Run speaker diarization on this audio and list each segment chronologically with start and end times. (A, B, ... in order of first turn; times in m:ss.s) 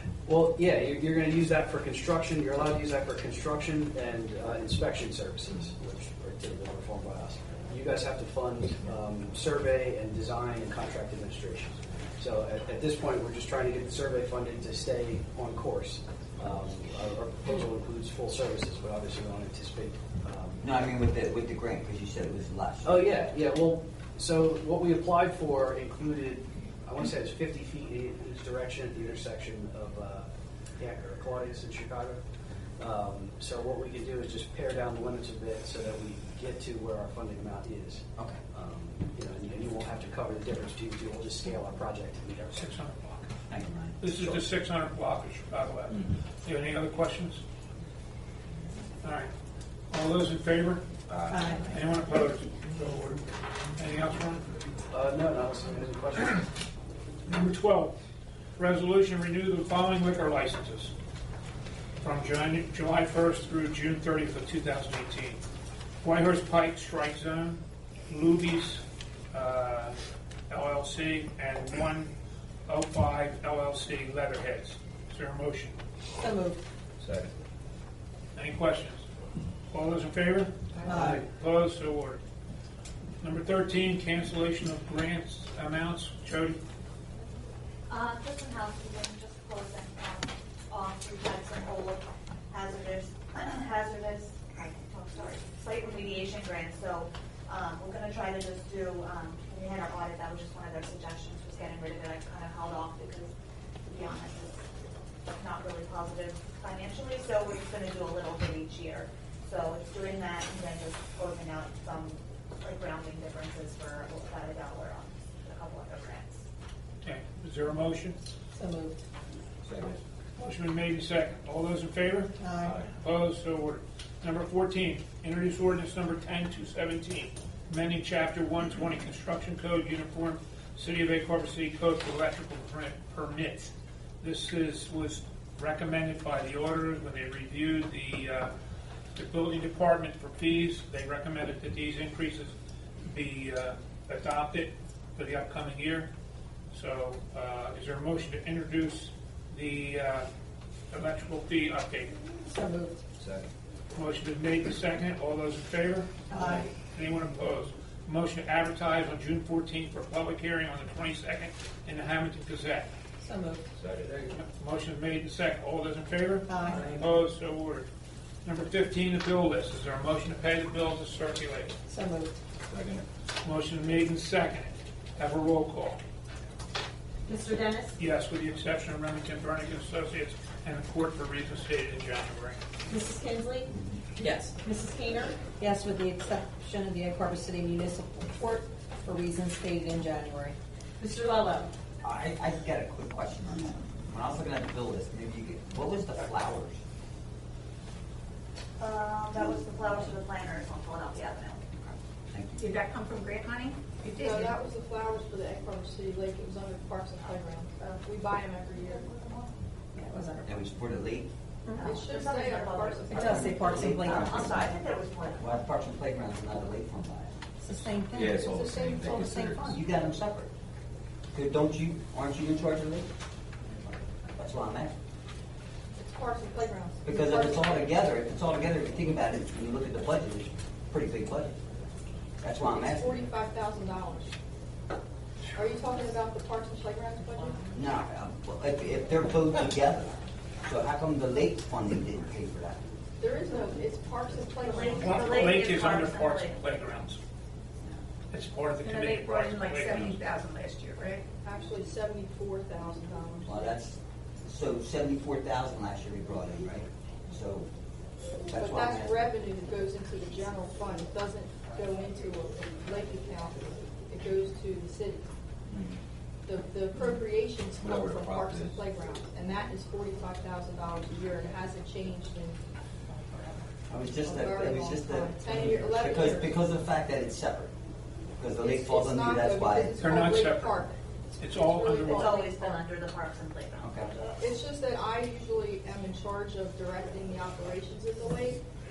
0:00.2-0:20.6 A
0:20.6-0:23.0 B
0:22.8-0:32.2 A
0:32.8-0:42.6 A
0:42.5-0:43.3 C
0:43.5-0:44.1 B
0:44.0-0:47.4 C
0:49.0-0:49.3 C
0:49.9-0:52.6 C
0:51.3-0:51.7 D
0:53.8-0:54.4 C
0:54.9-0:56.4 A
0:57.3-0:57.9 C
0:58.6-1:00.9 C
1:02.0-1:05.4 C
1:06.0-1:10.0 C
1:10.5-1:12.1 C
1:12.7-1:15.8 C
1:16.2-1:16.6 D
1:17.0-1:17.3 E
1:18.3-1:19.0 C
1:19.7-1:22.2 C
1:20.8-1:21.2 D
1:23.2-1:26.6 C
1:27.9-1:43.3 F
1:43.9-1:44.8 F
1:45.3-1:56.4 F
1:57.0-1:58.2 C
1:58.5-1:59.0 D
1:59.6-2:00.0 E
2:00.4-2:18.5 C
2:02.4-2:02.8 D
2:02.6-2:02.9 E
2:19.1-2:22.5 C
2:23.0-2:26.1 C
2:26.7-2:30.3 C
2:30.9-2:32.2 C
2:32.4-2:33.0 D
2:33.2-2:33.5 E
2:33.9-2:36.2 C
2:36.3-2:36.7 D
2:36.4-2:36.6 E
2:36.9-2:42.9 C
2:43.2-2:43.6 D
2:43.8-2:44.3 E
2:44.3-2:47.8 C
2:46.5-2:47.0 D
2:46.6-2:47.0 E
2:48.4-2:51.8 C
2:51.9-2:52.3 D
2:52.7-2:53.0 E
2:53.4-2:56.0 C
2:57.2-2:58.0 D
2:58.0-3:02.6 C
3:02.9-3:11.7 D
3:12.0-3:16.8 B
3:18.8-3:21.6 F
3:21.8-3:22.6 B
3:22.6-3:24.5 G
3:24.2-3:29.0 H
3:27.2-3:28.0 F
3:28.7-3:29.5 F
3:29.9-3:30.6 D
3:30.4-3:31.3 B
3:31.7-3:35.6 F
3:31.8-3:33.6 H
3:33.1-3:34.6 D
3:33.1-3:34.7 B
3:35.3-3:37.4 B
3:37.6-3:39.8 D
3:38.1-3:39.7 E
3:38.4-3:39.4 H
3:39.6-3:40.5 B
3:41.3-3:43.1 B
3:43.7-3:44.9 B
3:46.0-3:47.9 H
3:47.0-3:51.6 B
3:52.4-3:53.2 B
3:52.6-3:54.3 H
3:55.5-3:57.6 H
3:57.7-4:02.8 B
4:03.2-4:05.6 H
4:04.6-4:06.6 F
4:05.0-4:07.2 C
4:08.3-4:10.2 C
4:08.8-4:11.2 G
4:11.4-4:13.7 H
4:13.4-4:17.7 B
4:18.5-4:19.2 B
4:18.5-4:25.2 H
4:25.7-4:26.0 E
4:26.4-4:36.6 H
4:27.8-4:28.8 E
4:33.9-4:37.7 B
4:38.4-4:40.0 B
4:38.5-4:42.8 H
4:40.0-4:40.8 C
4:41.4-4:42.3 C
4:42.1-4:44.2 F
4:43.8-4:44.1 B
4:44.3-4:48.6 H